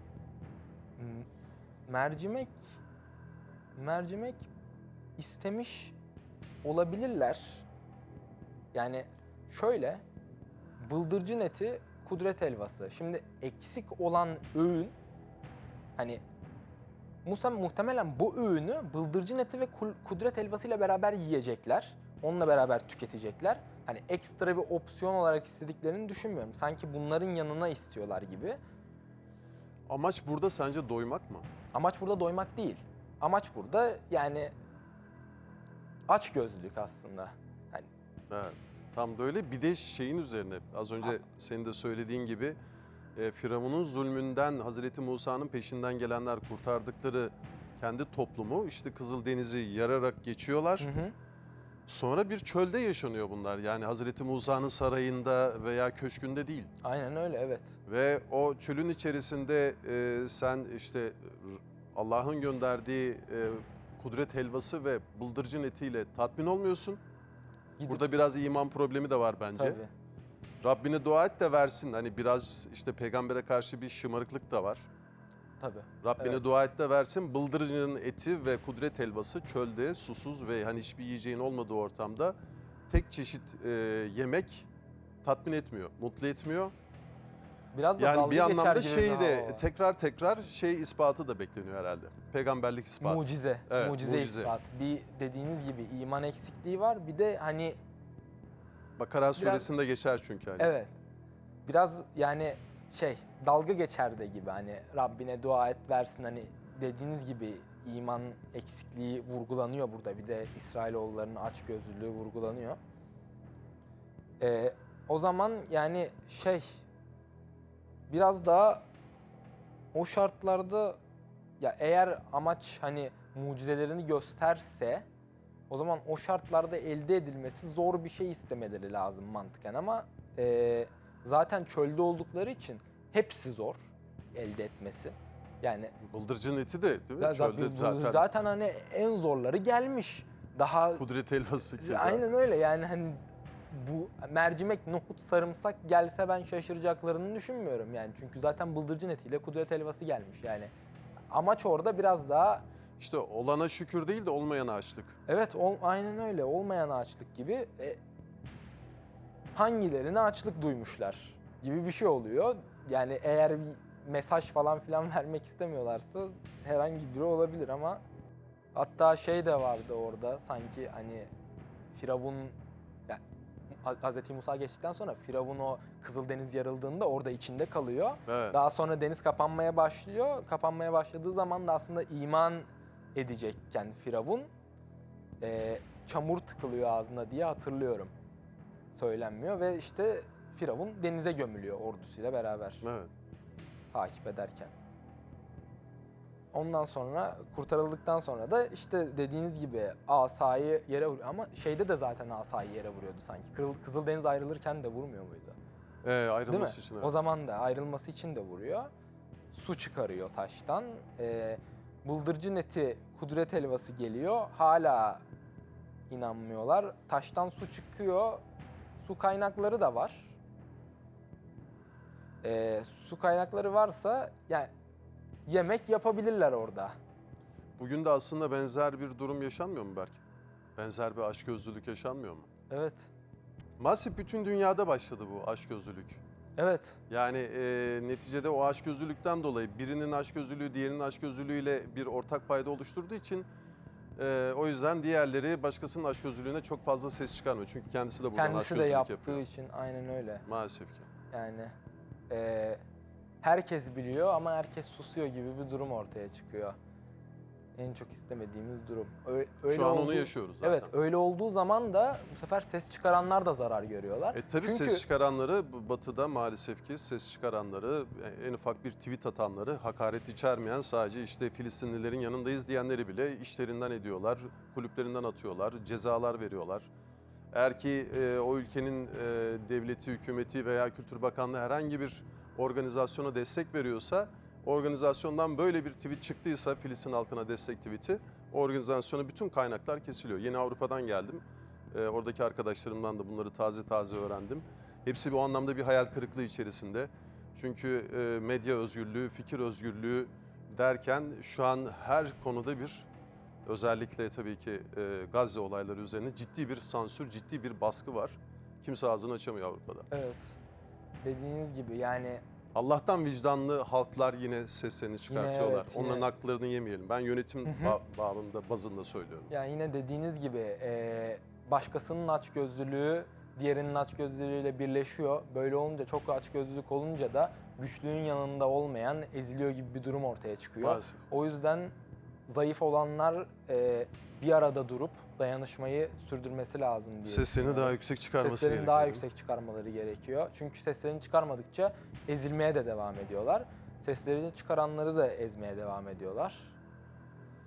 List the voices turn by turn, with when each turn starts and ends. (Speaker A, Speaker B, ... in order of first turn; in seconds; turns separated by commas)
Speaker A: 1.0-1.3, Speaker A: 1.9-2.6, Speaker A: 3.8-4.5, Speaker A: 5.2-6.0, Speaker A: 6.6-7.7, Speaker A: 8.7-10.0, Speaker A: 10.8-14.9, Speaker A: 17.2-28.6, Speaker B: 29.9-31.5, Speaker A: 31.7-34.5, Speaker A: 36.1-37.9, Speaker B: 38.3-42.6, Speaker B: 43.1-50.9, Speaker A: 50.8-51.1, Speaker B: 51.9-56.7, Speaker A: 56.8-57.8, Speaker B: 57.9-67.0, Speaker A: 67.8-68.1, Speaker B: 67.9-69.8, Speaker A: 69.6-69.9, Speaker B: 70.6-74.9, Speaker A: 75.6-76.4, Speaker B: 76.0-82.3, Speaker B: 82.9-84.7, Speaker B: 85.2-86.7, Speaker A: 87.7-89.7, Speaker B: 88.0-94.5, Speaker A: 93.0-97.8, Speaker B: 99.0-100.7, Speaker A: 99.3-99.7, Speaker A: 100.6-100.9, Speaker A: 101.7-112.8, Speaker A: 114.4-116.8, Speaker A: 118.1-118.8, Speaker A: 119.9-121.0, Speaker A: 121.6-125.1, Speaker A: 125.7-133.8, Speaker A: 134.3-135.9, Speaker B: 136.0-138.3, Speaker A: 137.2-141.0, Speaker B: 141.0-142.2, Speaker A: 141.8-150.7, Speaker A: 151.3-152.7, Speaker B: 153.0-155.2, Speaker A: 155.3-158.0, Speaker A: 159.5-168.0, Speaker A: 168.8-171.3, Speaker A: 171.9-172.6, Speaker A: 173.1-184.5, Speaker B: 178.3-178.6, Speaker A: 185.4-188.1, Speaker A: 188.9-192.8, Speaker B: 192.8-193.1, Speaker A: 193.9-194.7, Speaker A: 196.5-205.6, Speaker B: 206.0-207.1, Speaker A: 206.5-208.9, Speaker A: 209.5-215.2, Speaker A: 216.1-218.4, Speaker A: 219.0-220.3, Speaker A: 222.4-224.7, Speaker A: 225.5-226.9, Speaker B: 227.8-230.2, Speaker B: 230.8-232.5, Speaker A: 232.7-233.1, Speaker B: 233.8-236.2, Speaker A: 236.6-237.0, Speaker B: 237.1-243.5, Speaker B: 244.2-249.4, Speaker A: 248.3-250.4, Speaker B: 250.5-251.1, Speaker A: 251.3-251.7, Speaker A: 252.3-252.8, Speaker A: 253.4-256.8, Speaker A: 257.8-265.1, Speaker B: 259.7-260.9, Speaker B: 264.3-276.9, Speaker B: 277.5-303.1, Speaker B: 303.7-310.1, Speaker A: 310.1-310.6, Speaker A: 311.2-312.4, Speaker B: 312.7-319.5, Speaker A: 315.3-316.3, Speaker A: 317.6-318.0, Speaker A: 319.5-331.9, Speaker B: 330.8-331.2, Speaker A: 332.5-346.8, Speaker B: 337.3-339.2